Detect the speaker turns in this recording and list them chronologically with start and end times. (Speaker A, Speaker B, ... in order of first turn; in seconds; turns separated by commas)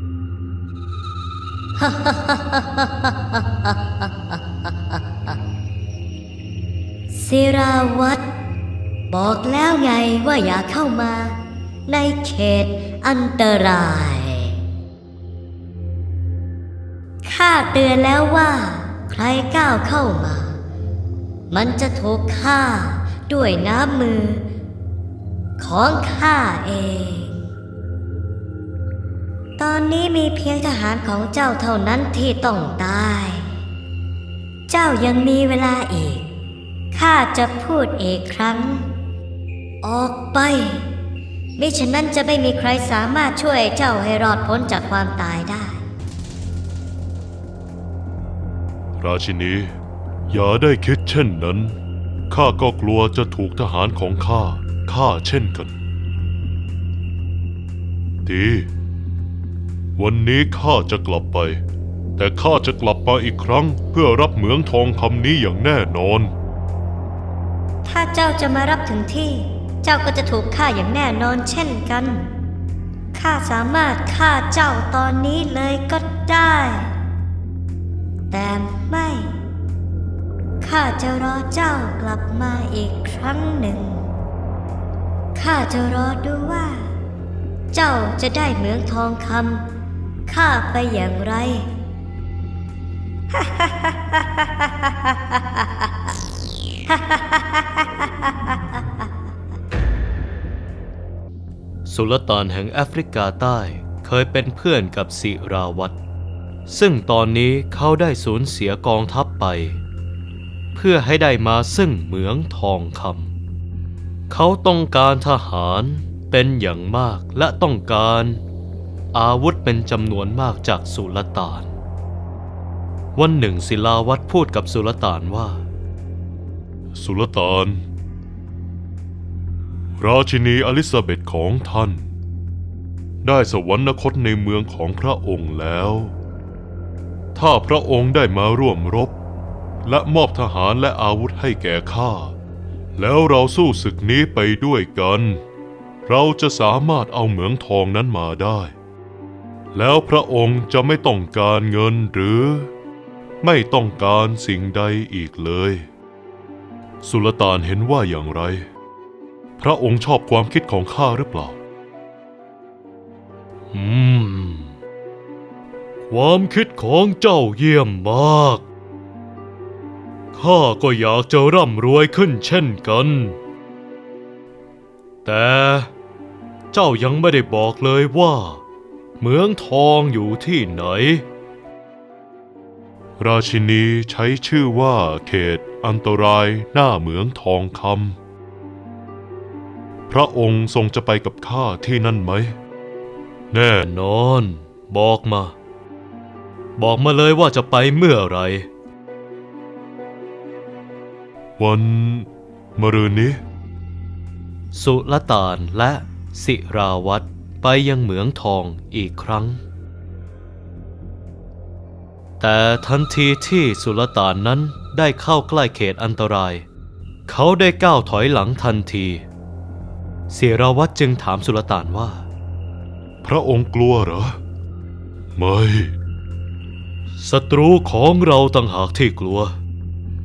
Speaker A: 1.8-4.1, Speaker A: 7.1-8.2, Speaker A: 9.1-14.6, Speaker A: 17.2-20.6, Speaker A: 21.5-24.4, Speaker A: 25.6-27.4, Speaker A: 29.6-33.6, Speaker A: 34.7-36.2, Speaker A: 36.9-38.9, Speaker A: 39.8-40.9, Speaker A: 41.6-45.8, Speaker B: 49.0-49.7, Speaker B: 50.3-51.8, Speaker B: 52.3-55.7, Speaker B: 58.2-58.7, Speaker B: 60.0-61.6, Speaker B: 62.2-66.3, Speaker A: 67.8-72.2, Speaker A: 73.1-76.9, Speaker A: 78.3-79.3, Speaker A: 80.6-84.0, Speaker A: 85.3-86.9, Speaker A: 87.7-89.7, Speaker A: 90.3-91.7, Speaker A: 93.3-95.7, Speaker A: 96.9-99.0, Speaker C: 101.8-106.0, Speaker C: 106.7-109.8, Speaker C: 110.7-113.3, Speaker C: 114.3-118.4, Speaker C: 119.1-121.7, Speaker C: 123.2-125.6, Speaker B: 127.0-127.8, Speaker B: 130.0-132.0, Speaker B: 133.2-136.1, Speaker B: 137.3-139.1, Speaker B: 139.8-142.3, Speaker B: 143.0-145.4, Speaker B: 146.1-148.7, Speaker B: 149.7-152.7, Speaker B: 153.4-155.8, Speaker B: 157.0-158.7, Speaker B: 159.6-161.6, Speaker C: 163.7-164.7, Speaker C: 166.1-168.7, Speaker C: 170.3-173.4, Speaker C: 175.2-175.9, Speaker C: 176.7-178.6, Speaker C: 179.2-181.2, Speaker B: 183.2-188.2, Speaker B: 190.1-192.6, Speaker B: 193.5-193.9, Speaker C: 193.7-195.6, Speaker C: 196.8-198.7, Speaker B: 201.6-203.4, Speaker C: 204.7-209.6, Speaker C: 212.4-216.7, Speaker C: 217.3-219.2, Speaker C: 220.3-222.2, Speaker B: 223.2-224.4, Speaker B: 225.4-225.9, Speaker C: 227.2-229.6